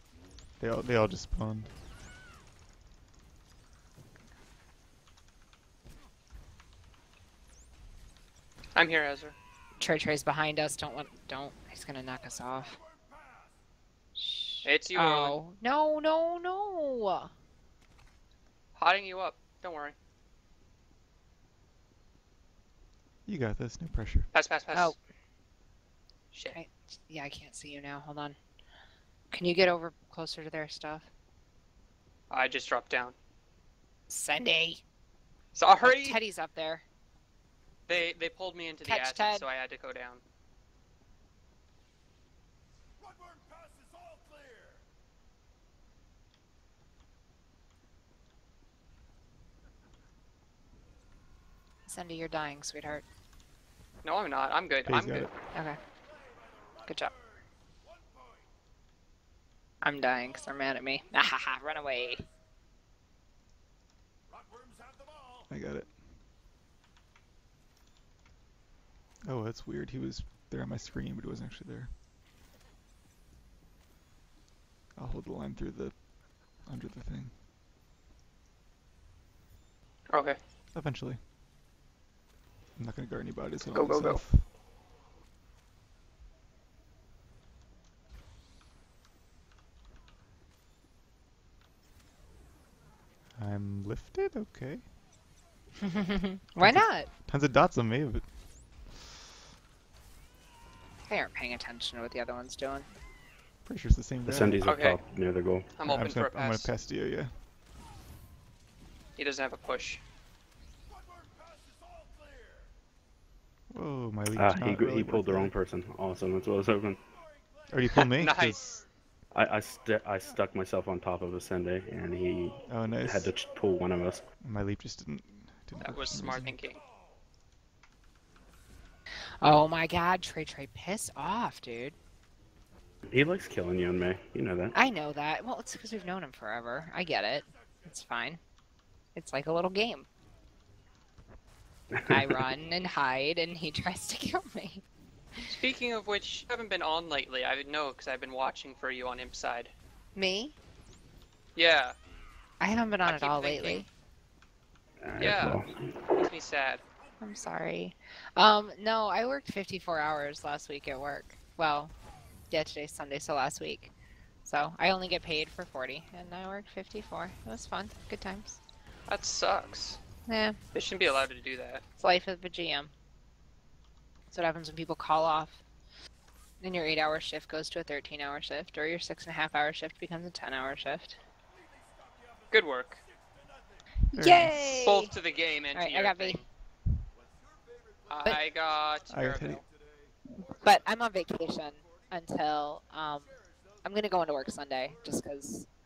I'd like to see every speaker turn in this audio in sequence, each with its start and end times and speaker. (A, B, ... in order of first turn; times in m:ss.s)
0:00.6-0:01.8 A
0:08.8-0:09.4 B
0:09.8-0:12.8 C
0:14.2-0:17.3 C
0:14.6-0:15.4 B
0:18.8-0:20.0 B
0:23.3-0:24.3 A
0:24.3-0:25.0 B
0:26.3-0:26.6 B
0:26.4-0:28.4 C
0:29.3-0:31.1 C
0:32.3-0:33.2 B
0:34.1-0:34.8 C
0:35.5-0:36.2 B
0:35.8-0:36.8 C
0:37.9-0:40.2 B
0:38.8-0:39.5 C
0:51.9-0:53.0 C
0:54.0-0:55.3 B
0:54.9-0:55.3 A
0:55.5-0:55.8 C
0:56.8-0:57.2 C
0:59.8-1:02.3 C
1:05.5-1:06.0 A
1:09.2-1:11.9 A
1:15.0-1:17.4 A
1:20.1-1:20.4 B
1:20.8-1:21.2 A
1:22.8-1:24.5 A
1:23.7-1:24.2 B
1:33.4-1:34.9 A
1:35.8-1:37.1 C
1:36.6-1:38.4 A
1:41.1-1:42.9 C
1:43.6-1:44.6 A
1:44.2-1:45.7 D
1:44.6-1:45.0 B
1:45.8-1:46.7 B
1:45.8-1:47.4 A
1:49.2-1:50.0 B
1:53.7-1:55.5 A
1:54.3-1:57.0 D
1:57.7-1:58.8 A
1:58.0-1:58.8 B
1:59.3-2:04.2 D
2:02.7-2:03.3 A
2:04.4-2:06.6 A
2:05.8-2:06.8 B
2:09.4-2:12.0 C
2:13.1-2:14.8 D
2:14.7-2:18.4 C
2:19.2-2:20.1 C
2:22.1-2:24.8 C
2:25.5-2:29.7 B
2:30.2-2:30.6 C
2:31.6-2:31.9 B
2:32.6-2:33.9 C
2:33.0-2:33.8 B
2:35.0-2:35.9 D
2:35.2-2:36.8 B
2:37.2-2:41.9 C
2:42.5-2:43.9 C
2:44.4-2:48.6 C
2:49.1-2:50.0 B
2:50.3-2:50.6 C
2:50.7-2:51.8 B
2:52.0-2:52.9 C
2:54.3-2:55.6 C
2:56.6-3:01.2 C
3:02.5-3:03.0 B
3:04.1-3:04.9 A
3:04.2-3:05.1 C
3:04.8-3:06.5 B
3:05.7-3:06.4 C
3:08.1-3:09.6 B
3:09.1-3:09.6 A
3:10.4-3:15.7 C